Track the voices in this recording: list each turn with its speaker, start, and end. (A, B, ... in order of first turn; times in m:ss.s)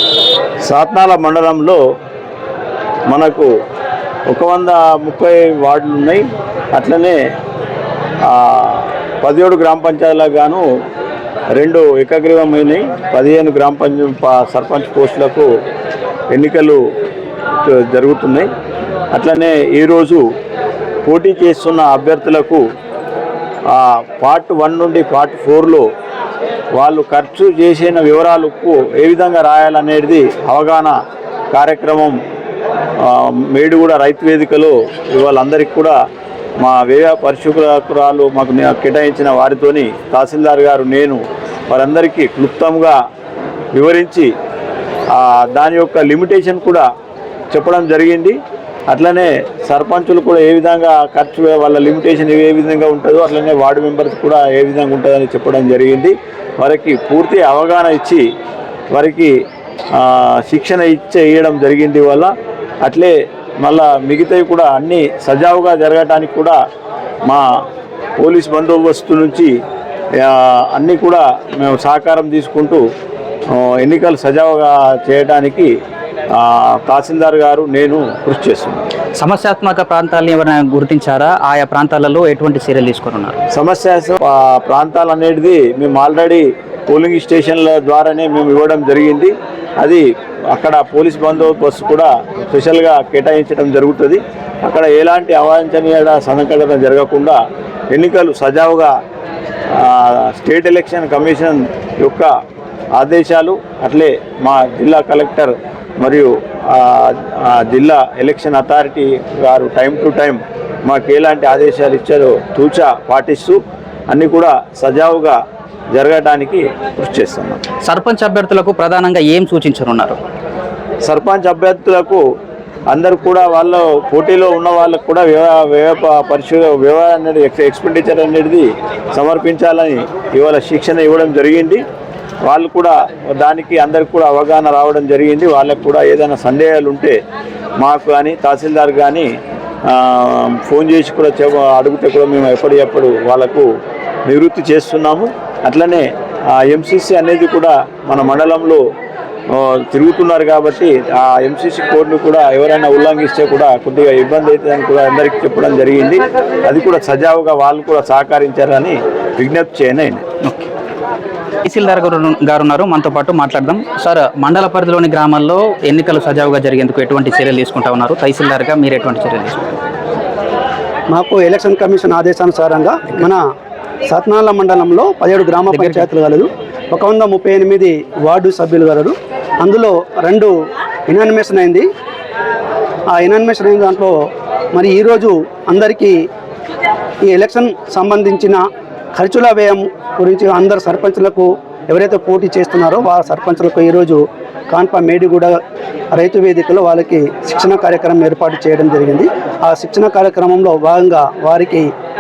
0:00.7-0:01.8 A
0:03.1-0:03.5 A
0:04.3-0:07.2 A
0:08.2-0:10.6 A
0:11.6-0:15.5 A
0:16.3-0:16.8 A
0:17.6-0:18.5 A
0:19.1-0:20.2 A
0:21.0-0:22.6 A
0:23.7-0:25.9 A
0:26.8-0:31.0 A
0:31.5-0:32.2 A
0:33.0-0:36.0 A
0:36.6-0:43.0 A
0:43.7-0:44.3 A
0:45.1-0:46.9 A
0:47.5-0:58.2 A
0:58.9-0:59.3 A
1:00.0-1:02.3 A
1:02.8-1:06.6 A
1:08.2-1:09.5 A
1:10.2-1:12.8 A
1:13.5-1:15.7 A
1:16.3-1:18.9 A
1:19.2-1:23.4 B
1:23.5-1:37.4 A
1:37.9-1:38.9 A
1:39.7-1:42.3 A
1:43.0-1:55.4 A
1:55.9-1:57.6 A
1:57.8-2:00.2 B
2:01.1-2:02.2 A
2:02.9-2:11.8 A
2:12.5-2:17.2 A
2:17.8-2:19.3 A
2:19.9-2:23.7 A
2:24.3-2:28.8 A
2:29.5-2:40.2 A
2:40.4-2:40.7 B
2:41.6-2:49.8 B
2:51.1-2:53.4 C
2:54.1-3:00.5 C
2:55.7-2:56.1 B
3:01.1-3:01.9 C
3:03.1-3:04.1 C
3:04.8-3:06.2 C
3:07.3-3:08.6 C
3:09.2-3:14.2 C
3:14.7-3:15.6 C
3:16.1-3:21.9 C